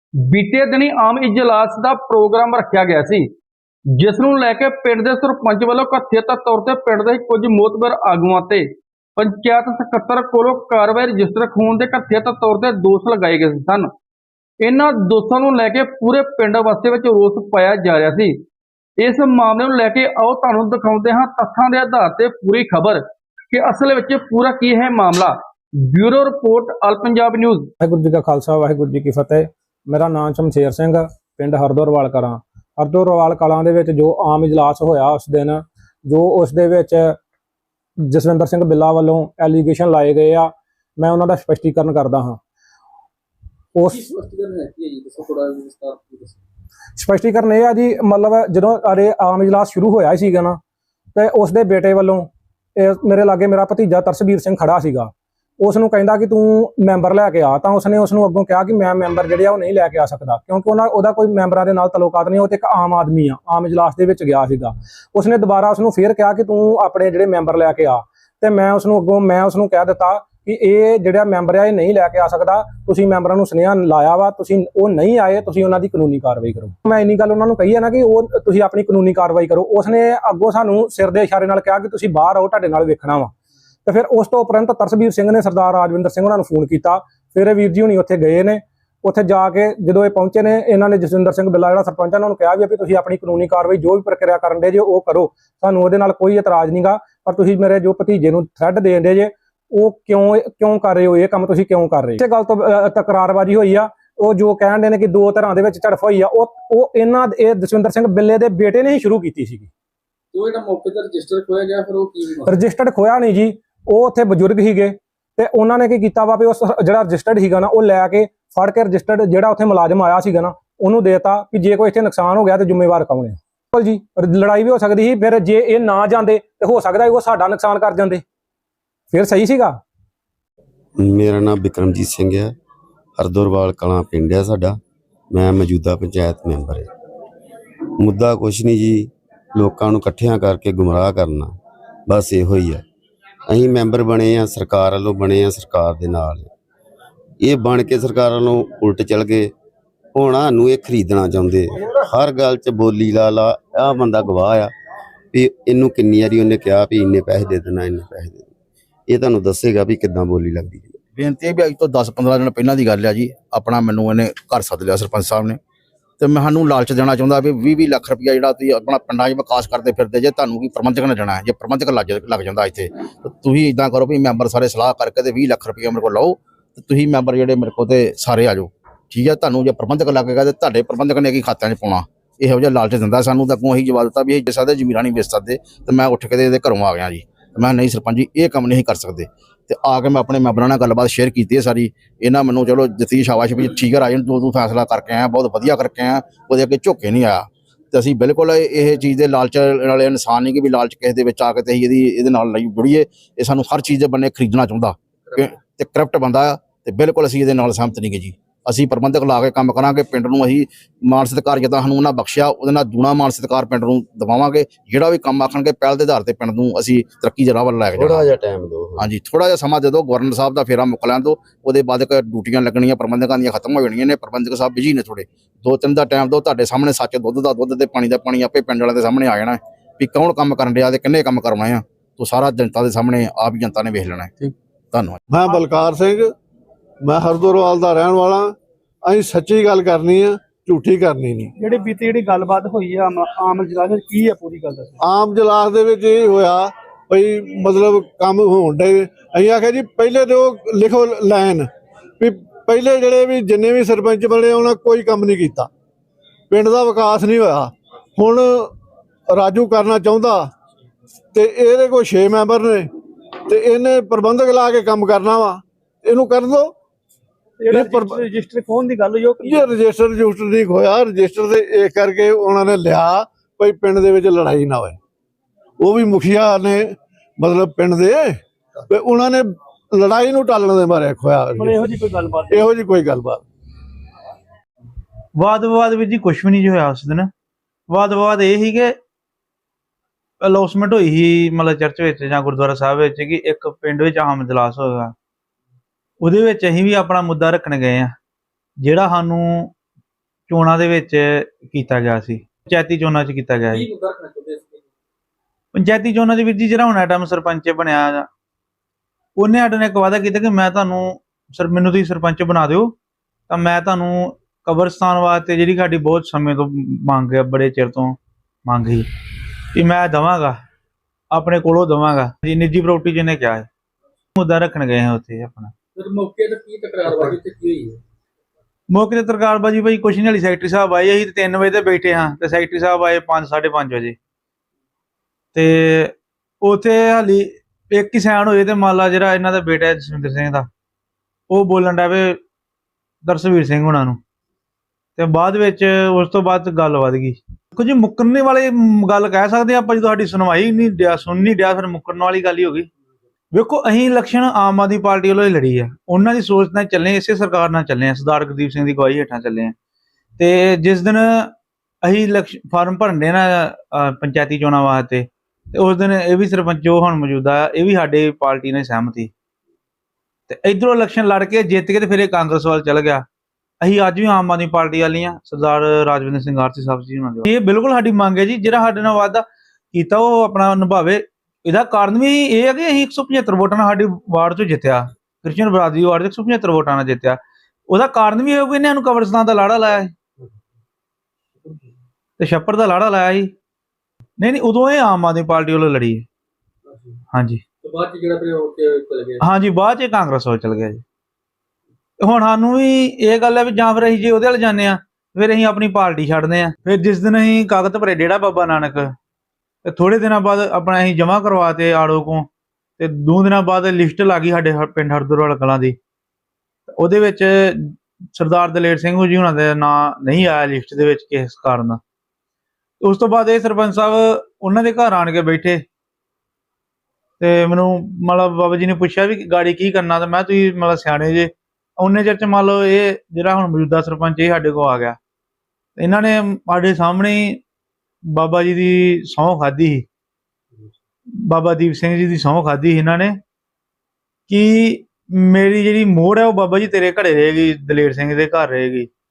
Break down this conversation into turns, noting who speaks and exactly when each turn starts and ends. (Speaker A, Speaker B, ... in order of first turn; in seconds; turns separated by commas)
Speaker A: 0.3-3.2, Speaker A: 4.0-13.9, Speaker A: 14.6-18.4, Speaker A: 19.0-27.7, Speaker B: 27.8-37.2, Speaker B: 38.1-42.4, Speaker B: 43.8-44.0, Speaker A: 43.9-46.4, Speaker B: 47.0-50.6, Speaker B: 51.1-83.3, Speaker B: 83.8-109.7, Speaker A: 110.3-112.5, Speaker B: 112.4-128.2, Speaker B: 129.1-129.8, Speaker C: 131.0-132.5, Speaker C: 133.2-134.8, Speaker C: 135.3-136.9, Speaker C: 138.0-141.6, Speaker C: 142.1-142.8, Speaker C: 143.5-146.5, Speaker C: 147.4-149.5, Speaker C: 150.2-154.7, Speaker C: 155.3-158.5, Speaker C: 159.1-161.0, Speaker D: 161.2-165.6, Speaker D: 166.2-218.3, Speaker C: 218.0-219.1, Speaker D: 219.0-234.3, Speaker D: 234.9-235.2, Speaker E: 235.3-236.3, Speaker E: 237.0-241.5, Speaker F: 241.6-244.8, Speaker E: 245.0-255.7, Speaker E: 256.5-258.7, Speaker E: 259.3-260.5, Speaker E: 261.3-262.9, Speaker E: 263.5-266.7, Speaker E: 267.7-268.2, Speaker F: 268.3-269.4, Speaker E: 269.4-275.0, Speaker E: 275.8-281.8, Speaker F: 281.9-282.4, Speaker E: 282.5-283.4, Speaker G: 285.4-287.3, Speaker G: 287.9-288.9, Speaker G: 290.4-295.1, Speaker G: 296.2-298.1, Speaker G: 298.8-299.7, Speaker G: 300.5-303.9, Speaker A: 303.7-304.8, Speaker G: 305.7-308.3, Speaker G: 309.4-312.9, Speaker G: 313.5-319.1, Speaker G: 319.8-320.6, Speaker G: 321.3-323.7, Speaker G: 324.4-325.7, Speaker H: 326.0-327.9, Speaker A: 327.1-327.9, Speaker G: 328.9-334.2, Speaker G: 335.6-340.7, Speaker G: 341.5-342.4, Speaker G: 343.2-344.2, Speaker G: 345.2-352.9, Speaker G: 353.5-359.7, Speaker G: 360.4-361.5, Speaker G: 362.0-369.3, Speaker G: 370.5-373.2, Speaker G: 373.8-387.4, Speaker G: 387.9-390.1, Speaker G: 392.4-393.5, Speaker G: 394.4-396.2, Speaker G: 397.3-397.6, Speaker H: 397.9-399.1, Speaker A: 397.9-399.3, Speaker G: 399.4-401.0, Speaker G: 402.2-409.1, Speaker G: 409.9-412.5, Speaker G: 413.0-416.0, Speaker G: 416.9-422.0, Speaker G: 423.0-425.8, Speaker G: 427.4-435.2, Speaker G: 436.0-437.6, Speaker G: 438.3-440.0, Speaker G: 441.5-443.4, Speaker G: 444.5-449.1